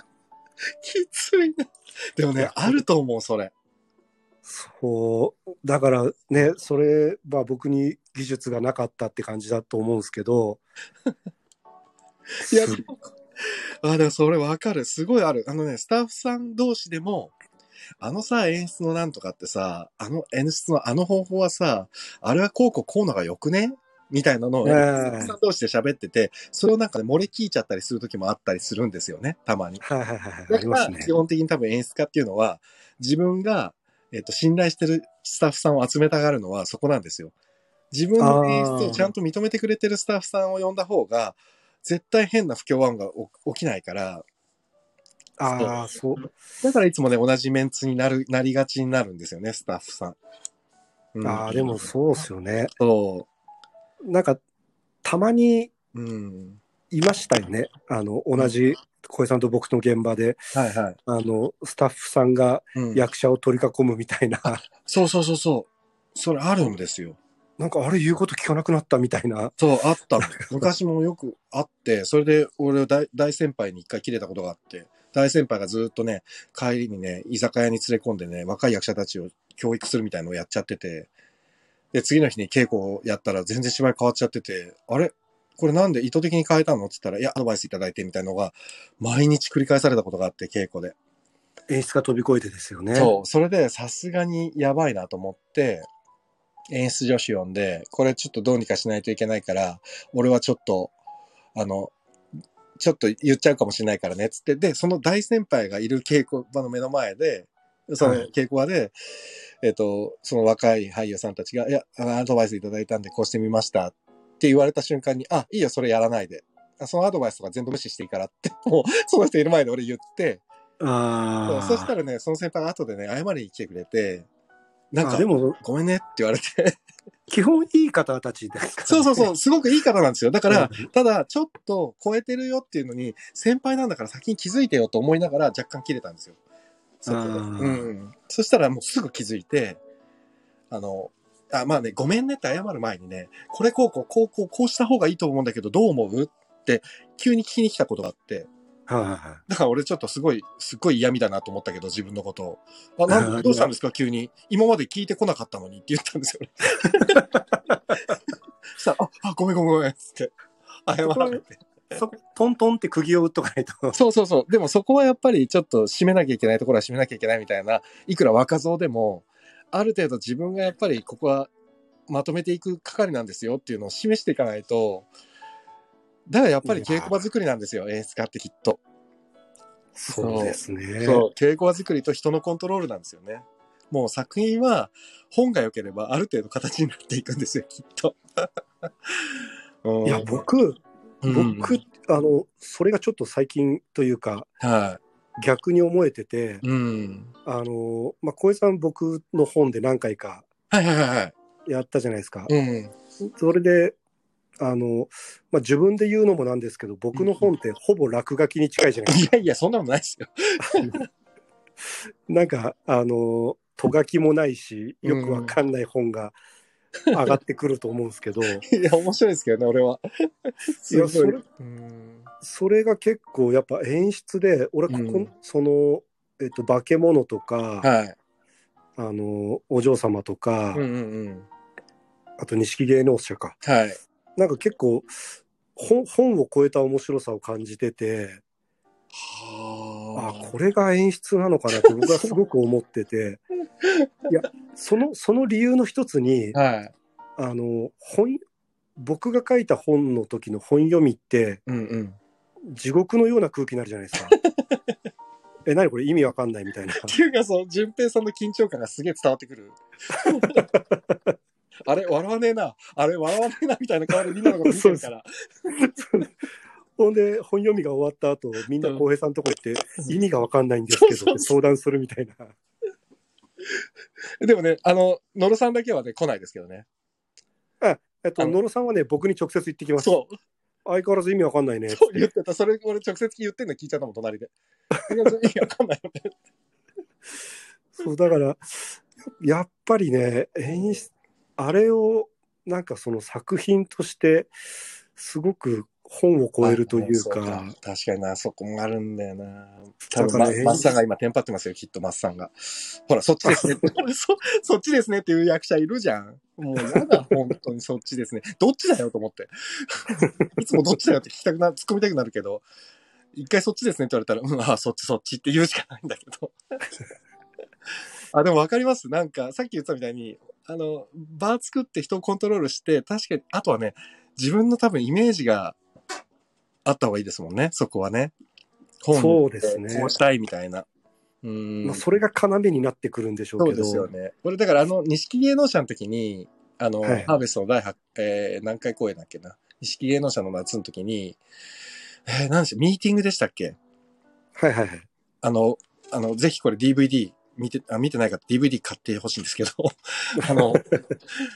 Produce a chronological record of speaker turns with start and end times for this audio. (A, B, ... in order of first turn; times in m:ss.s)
0:00.8-0:03.5 A
0:02.4-0:02.8 B
0:04.4-0:10.6 B
0:12.4-0:13.1 A
0:12.5-0:12.8 B
0:13.8-0:17.3 A
0:18.0-0:29.8 A
0:24.6-0:25.4 B
0:29.8-0:31.1 B
0:30.5-0:37.3 A
0:37.9-0:44.3 A
0:38.2-0:39.1 B
0:45.4-0:46.3 B
0:45.5-0:45.8 A
0:46.6-0:50.2 A
0:51.2-0:51.9 A
0:51.2-0:52.7 B
0:52.8-0:53.3 A
0:54.0-0:54.4 B
0:55.0-0:55.7 B
0:55.9-0:56.6 A
0:56.9-1:00.4 B
1:00.5-1:01.0 A
1:01.1-1:04.6 B
1:02.8-1:03.0 A
1:04.8-1:07.2 A
1:07.6-1:09.6 B
1:09.6-1:21.1 A
1:10.2-1:10.5 B
1:21.9-1:31.0 A
1:31.7-1:33.1 B
1:33.0-1:35.9 A
1:36.7-1:40.9 A
1:41.6-1:41.9 A
1:42.8-1:48.9 A
1:48.0-1:48.3 B
1:49.6-2:00.4 A
2:00.8-2:01.9 B
2:01.5-2:04.3 A
2:04.9-2:06.8 A
2:05.0-2:05.6 B
2:07.3-2:09.3 B
2:08.9-2:16.4 A
2:10.5-2:10.9 B
2:17.0-2:19.8 A
2:17.1-2:17.9 B
2:20.7-2:28.5 A
2:28.9-2:29.4 B
2:29.5-2:37.3 A
2:33.1-2:33.7 B
2:37.0-2:38.0 B
2:38.8-2:40.3 A
2:40.9-2:41.6 A
2:41.0-2:41.4 B
2:42.0-2:44.0 B
2:43.9-2:51.5 A
2:52.1-2:55.1 A
2:56.3-2:58.8 A
2:56.6-2:57.2 B
3:00.0-3:01.3 B
3:00.1-3:08.5 A
3:09.8-3:10.4 A
3:10.0-3:14.5 B
3:11.2-3:11.8 A
3:14.6-3:15.0 A
3:15.4-3:16.6 B
3:16.6-3:17.3 A
3:17.4-3:20.5 B
3:20.7-3:21.3 A
3:21.7-3:22.5 B
3:22.5-3:22.9 A
3:23.2-3:24.0 B
3:24.6-3:29.3 B
3:29.1-3:31.0 A
3:30.6-3:31.0 B
3:32.3-3:36.4 B
3:35.0-3:35.6 A
3:37.1-3:38.6 B
3:38.6-3:42.3 A
3:40.9-3:41.4 B
3:42.4-3:47.9 B
3:44.9-3:45.3 A
3:47.8-3:48.2 A
3:49.0-3:50.8 B
3:50.7-3:51.5 A
3:52.4-3:53.6 B
3:53.6-3:54.0 A
3:54.4-3:55.1 B
3:55.8-3:58.4 B
3:59.2-4:00.5 A
4:00.2-4:03.4 B
4:01.7-4:02.3 A
4:04.3-4:06.6 B
4:06.5-4:06.9 A
4:07.4-4:08.4 B
4:09.0-4:11.6 B
4:11.7-4:12.2 A
4:12.7-4:14.4 B
4:14.3-4:14.8 A
4:15.7-4:17.2 B
4:17.0-4:20.6 A
4:20.2-4:21.3 B
4:21.8-4:25.3 A
4:24.6-4:25.0 B
4:25.7-4:26.3 B
4:27.0-4:32.6 B
4:30.9-4:31.5 A
4:34.4-4:36.9 A
4:37.8-4:40.1 B
4:40.0-4:40.4 A
4:40.8-4:42.3 B
4:41.9-4:44.5 A
4:45.1-4:46.4 A
4:48.0-4:54.5 B
4:55.2-4:57.8 B
4:56.6-5:12.6 A
5:00.1-5:00.9 B
5:03.4-5:03.9 B
5:06.8-5:07.3 B
5:13.3-5:16.5 A
5:18.3-5:25.8 A
5:26.8-5:28.3 A
5:29.0-5:30.9 A
5:29.1-5:30.1 B
5:31.4-5:32.0 A
5:31.8-5:34.1 B
5:33.6-5:41.4 A
5:37.0-5:37.3 B
5:42.3-5:43.8 A
5:44.6-5:45.1 B
5:45.4-5:50.9 A
5:50.4-5:51.0 B